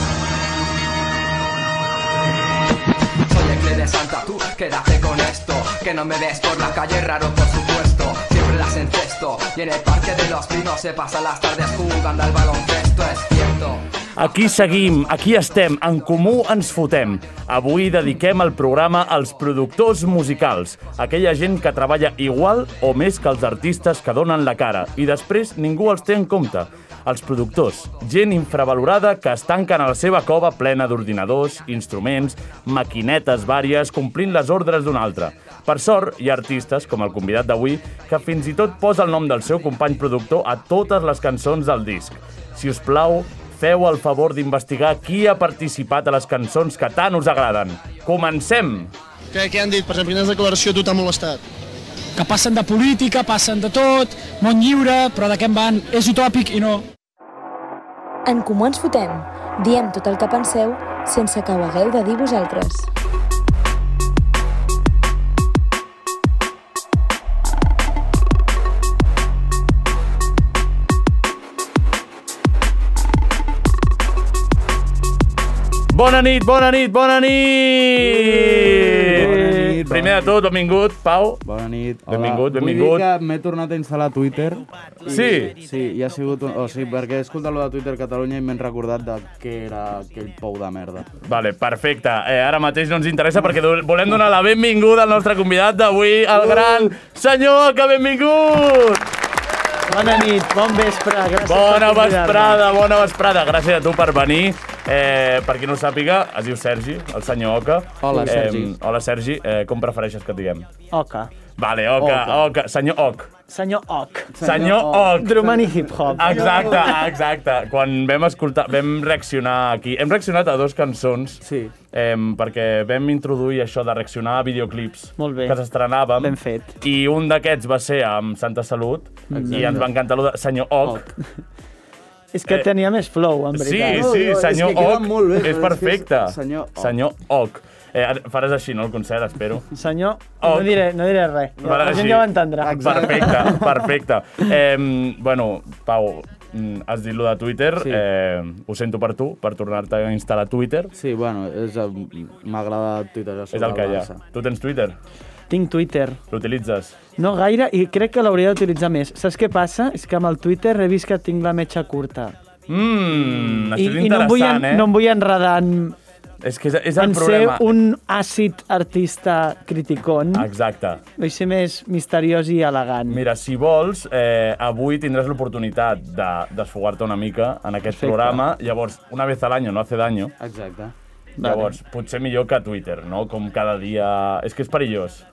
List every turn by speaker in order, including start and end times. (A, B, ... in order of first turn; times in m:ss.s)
0:03.3-0:14.6 A
0:14.2-0:48.9 B
0:49.3-0:51.4 C
0:52.2-0:56.9 D
0:58.2-1:02.9 E
1:15.9-1:19.3 B
1:18.0-1:20.4 F
1:19.1-1:19.8 G
1:19.8-1:21.4 B
1:21.4-1:31.1 F
1:22.1-1:23.1 B
1:25.1-1:25.6 B
1:31.2-1:39.1 B
1:36.4-1:36.9 F
1:39.9-1:42.6 G
1:41.4-1:50.7 B
1:48.0-1:48.8 F
1:50.9-1:51.3 G
1:51.6-1:53.3 B
1:52.0-1:52.4 F
1:53.5-1:54.4 G
1:54.3-1:57.0 F
1:54.4-1:55.6 B
1:55.2-1:56.9 G
1:56.2-2:11.1 B
2:01.4-2:01.7 F
2:05.2-2:05.6 G
2:06.2-2:06.8 G
2:09.3-2:09.8 G
2:09.3-2:09.9 F
2:12.3-2:14.1 G
2:13.5-2:19.7 B
2:13.9-2:17.0 F
2:19.7-2:23.1 G
2:20.4-2:20.8 B
2:21.6-2:23.9 F
2:21.6-2:30.9 B
2:27.8-2:28.0 F
2:30.9-2:34.2 F
2:33.5-2:35.0 B
2:35.5-2:36.2 G
2:36.3-2:37.0 B
2:37.2-2:42.4 G
2:42.7-2:44.9 B
2:43.8-2:46.0 G
2:46.4-2:47.7 B
2:47.0-2:50.5 G
2:50.3-2:51.0 B
2:51.2-2:53.2 G
2:53.1-3:00.3 B
2:57.9-2:58.4 G
3:00.4-3:00.9 F
3:01.4-3:01.8 G
3:01.4-3:05.2 B